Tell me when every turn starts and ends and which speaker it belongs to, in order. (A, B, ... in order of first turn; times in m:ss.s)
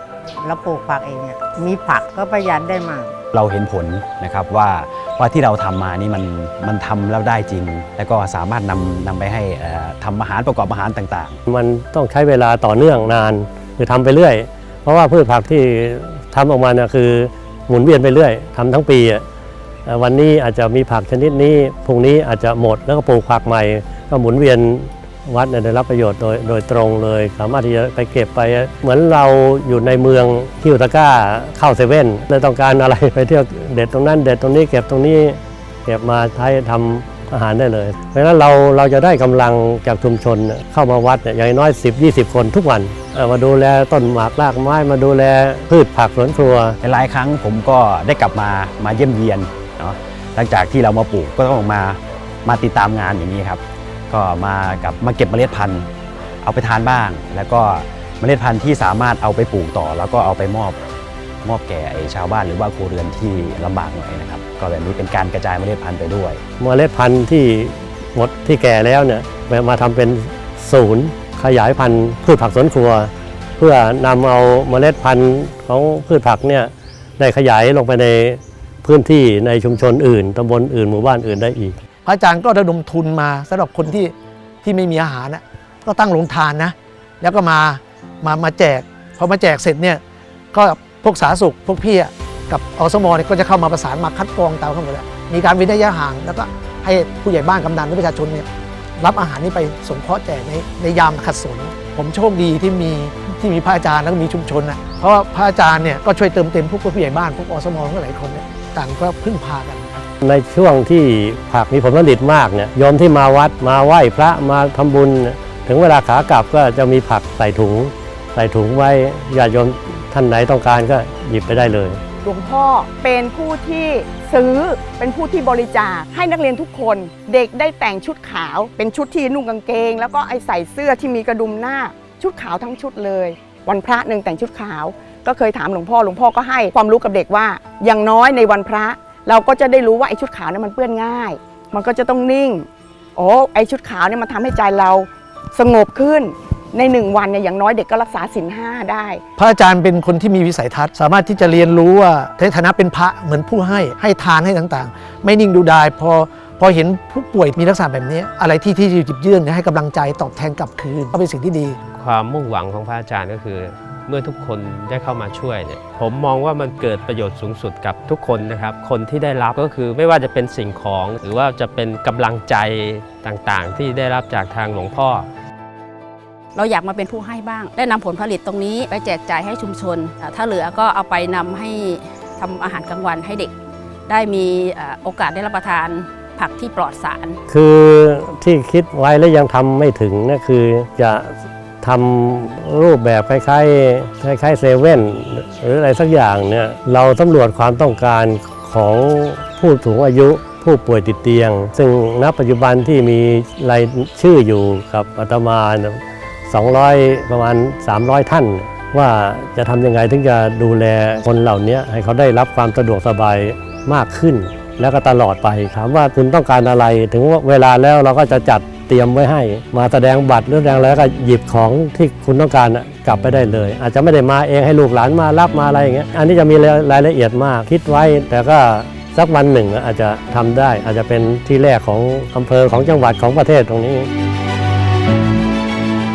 0:00.4-0:03.1 A
0:03.3-0:11.4 B
0:11.5-0:19.2 C
0:19.9-0:46.8 C
0:46.8-0:55.9 B
0:56.4-1:00.8 B
1:01.4-1:06.4 B
1:06.6-1:21.8 C
1:22.0-1:30.0 D
1:30.5-1:38.4 D
1:39.0-1:50.0 D
1:50.2-2:02.0 C
2:02.2-2:29.2 E
2:29.4-2:41.8 D
2:42.0-2:55.2 F
2:56.5-3:03.5 G
3:04.1-3:07.4 G
3:07.5-3:54.1 C